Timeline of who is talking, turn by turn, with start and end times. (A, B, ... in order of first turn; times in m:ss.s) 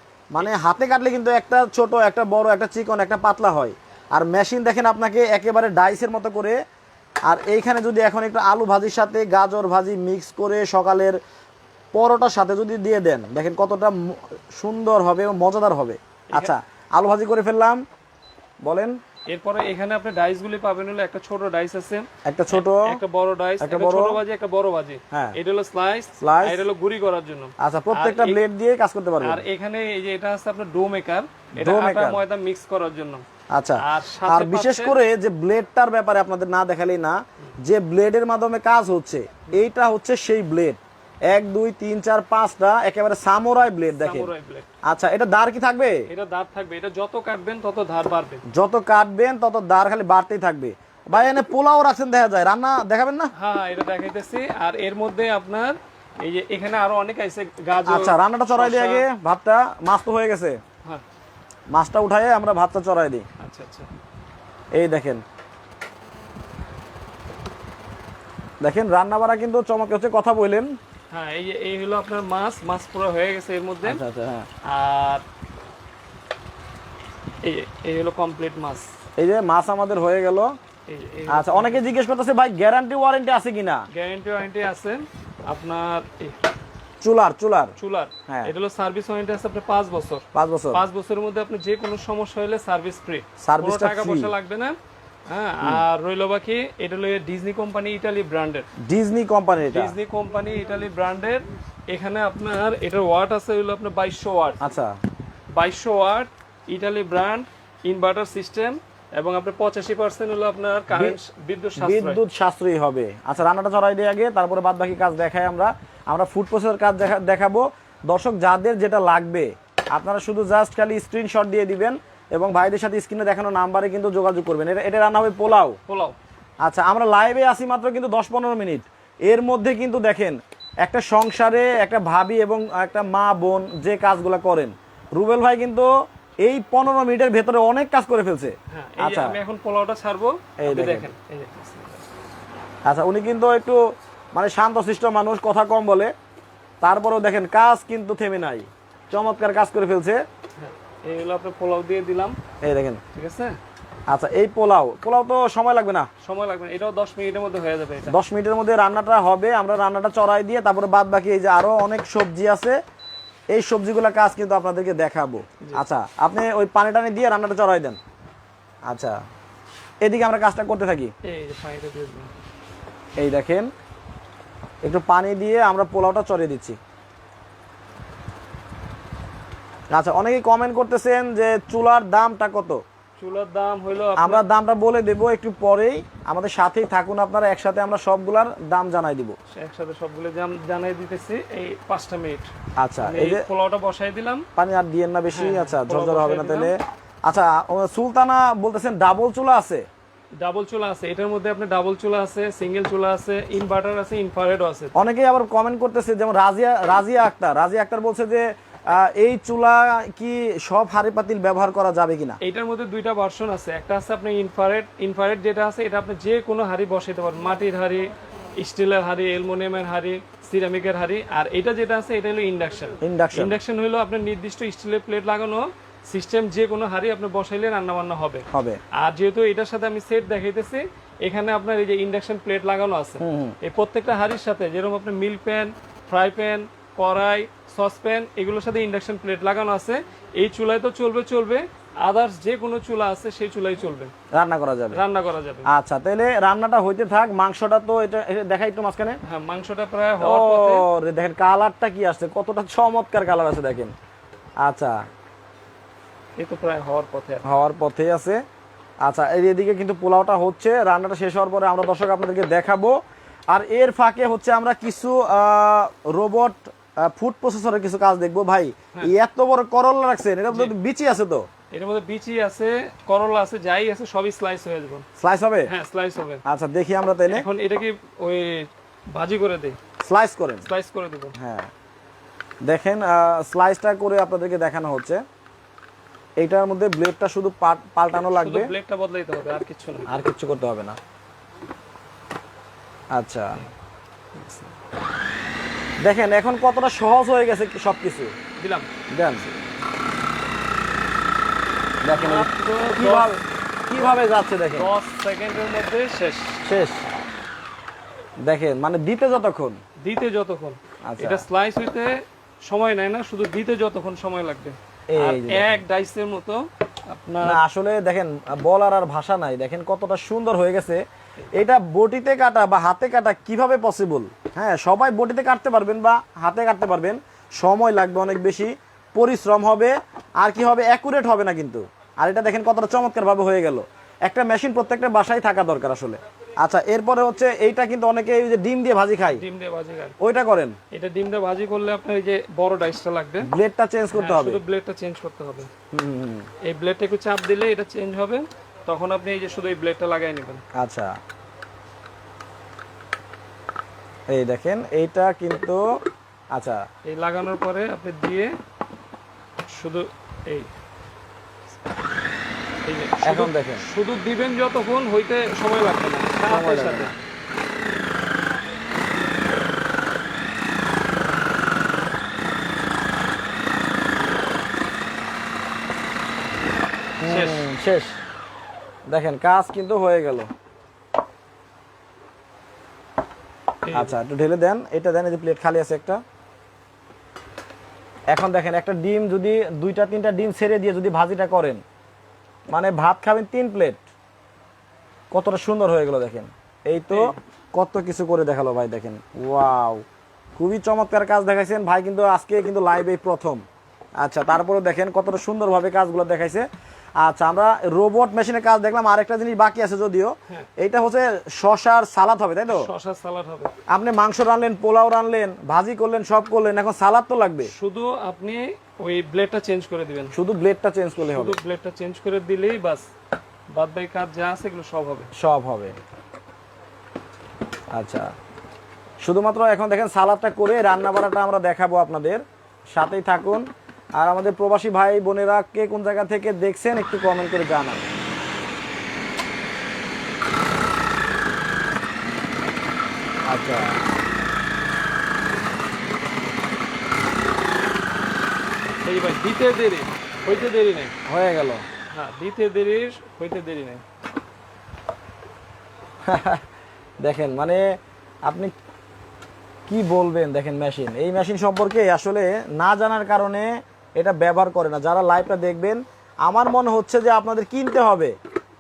0:00.3-0:06.6 A
0:07.2-0:11.2 A
0:11.9-0:17.8 A
0:18.6-0:19.0 A
0:19.3-0:28.4 B
0:22.2-0:23.0 A
0:23.6-0:24.2 A
0:25.1-0:25.4 A
0:26.2-0:26.6 A
0:27.6-0:29.4 A
0:29.2-0:33.2 B
0:31.6-0:32.2 A
0:33.5-0:44.3 A
0:33.8-0:35.0 B
0:44.0-0:44.7 B
0:44.8-0:46.1 A
0:46.1-0:48.4 B
0:48.5-0:53.3 A
0:53.4-0:59.1 B
0:57.9-1:00.6 A
1:01.7-1:03.3 A
1:03.4-1:03.9 B
1:04.7-1:05.2 A
1:08.6-1:10.8 A
1:11.1-1:14.0 B
1:13.8-1:14.5 A
1:14.6-1:15.2 B
1:17.4-1:18.9 B
1:19.2-1:20.5 A
1:20.9-1:21.9 B
1:21.3-1:23.8 A
1:23.9-1:26.4 B
1:27.0-1:27.7 A
1:27.8-1:34.8 B
1:30.4-1:30.8 A
1:33.4-1:34.3 A
1:35.3-1:38.7 B
1:38.8-1:40.0 A
1:39.7-1:44.6 B
1:44.6-1:45.0 A
1:45.6-1:52.2 B
1:51.8-2:05.8 A
2:05.9-2:06.2 B
2:06.6-2:15.9 A
2:16.4-2:19.4 A
2:18.7-2:22.0 B
2:20.6-2:21.1 A
2:22.9-2:23.8 A
2:24.3-2:26.1 A
2:26.8-2:30.2 A
2:30.6-2:32.4 B
2:32.6-2:33.0 A
2:33.1-2:33.6 B
2:34.1-2:36.1 A
2:36.2-2:38.2 B
2:38.1-2:42.8 A
2:43.5-2:48.0 A
2:48.9-2:49.2 A
2:50.0-2:51.1 A
2:51.2-2:52.3 B
2:53.2-2:53.7 A
2:54.8-2:56.8 A
2:59.9-3:02.8 A
3:03.2-3:04.4 B
3:04.2-3:09.4 A
3:09.5-3:12.5 B
3:12.8-3:13.4 A
3:13.0-3:14.5 B
3:14.6-3:19.9 A
3:15.3-3:16.7 B
3:20.4-3:24.9 B
3:25.0-3:32.4 A
3:32.4-4:04.1 B
3:43.0-3:43.6 A
3:48.5-3:48.8 A
3:53.2-3:53.6 A
4:04.3-4:05.0 A
4:04.9-4:05.7 B
4:05.7-4:09.2 A
4:09.2-4:10.9 B
4:10.2-4:14.0 A
4:14.6-4:15.0 A
4:16.4-4:17.4 B
4:17.4-4:18.4 A
4:19.0-4:23.0 A
4:23.5-4:31.5 A
4:31.7-4:35.0 B
4:35.2-4:35.7 A
4:35.7-4:36.4 B
4:36.5-4:37.4 A
4:37.3-4:39.8 B
4:40.0-4:40.6 A
4:40.6-4:41.4 B
4:41.4-4:41.7 A
4:42.6-4:45.2 A
4:46.4-4:48.7 A
4:48.3-4:50.2 B
4:50.1-4:51.0 A
4:53.1-4:53.6 A
4:54.4-4:54.7 B
4:56.0-4:58.3 A
4:58.6-4:58.9 B
4:59.1-4:59.5 A
5:02.0-5:04.9 A
5:02.1-5:03.3 B
5:04.7-5:06.6 B
5:06.6-5:07.0 A
5:08.4-5:09.8 A
5:10.0-5:12.2 B
5:11.1-5:11.4 A
5:12.7-5:17.6 B
5:15.1-5:15.8 A
5:17.4-5:21.0 A
5:21.5-5:39.4 A
5:39.3-5:40.2 B
5:40.2-5:40.8 A
5:40.9-5:43.5 B
5:43.4-5:44.6 A
5:44.1-5:45.7 B
5:45.9-5:46.5 A
5:46.6-5:50.6 B
5:50.8-5:51.2 A
5:54.3-5:55.8 A
5:56.5-5:56.8 A
5:57.1-5:58.5 B
5:59.7-6:00.7 B
6:02.8-6:07.1 B
6:03.2-6:03.8 A
6:06.4-6:07.1 A
6:17.2-6:18.2 A
6:17.3-6:17.6 B
6:19.1-6:20.5 A
6:23.9-6:24.2 B
6:23.9-6:26.2 A
6:28.3-6:31.8 A
6:32.7-6:34.0 A
6:35.3-6:40.0 A
6:37.1-6:37.4 B
6:40.6-6:43.6 A
6:44.2-6:46.7 A
6:47.2-6:52.9 A
6:52.7-6:53.7 B
6:53.9-6:57.7 A
6:57.7-7:00.3 B
7:00.3-7:01.6 A
7:01.2-7:03.1 B
7:03.7-7:05.3 B
7:05.4-7:06.0 A
7:07.9-7:08.3 A
7:09.2-7:12.4 A
7:12.9-7:18.1 A
7:23.5-7:24.0 A
7:29.1-7:31.2 B
7:31.3-7:31.8 A
7:32.1-7:34.0 B
7:36.2-7:36.6 A
7:37.2-7:38.7 A
7:39.9-7:48.4 A